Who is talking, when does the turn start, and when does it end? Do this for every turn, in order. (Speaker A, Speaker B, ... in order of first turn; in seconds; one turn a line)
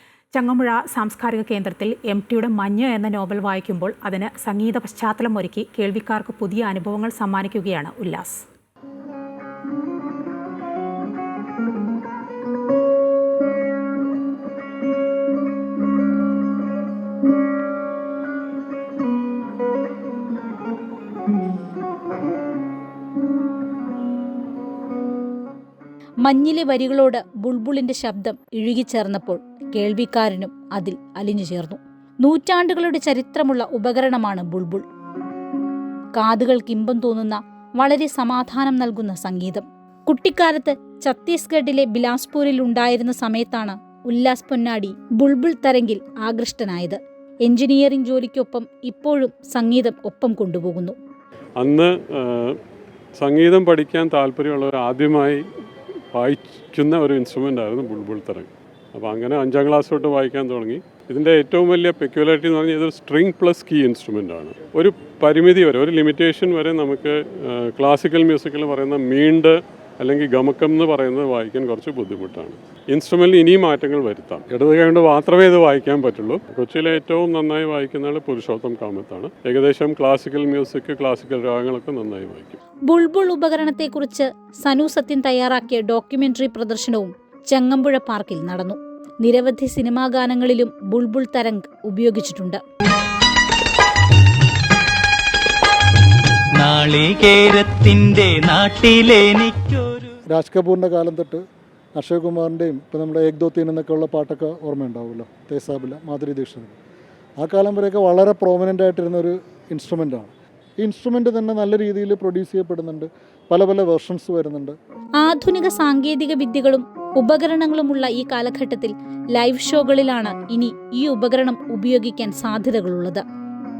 Speaker A: 0.3-8.5
Speaker B: 26.2-34.8
Speaker B: 36.1-51.0
Speaker C: 51.6-52.6
Speaker C: 53.2-55.4
Speaker C: 56.1-82.6
Speaker B: 82.9-92.6
Speaker D: 96.5-100.2
Speaker E: 100.3-101.4
Speaker E: 102.0-106.8
Speaker E: 107.4-114.8
Speaker B: 115.2-123.2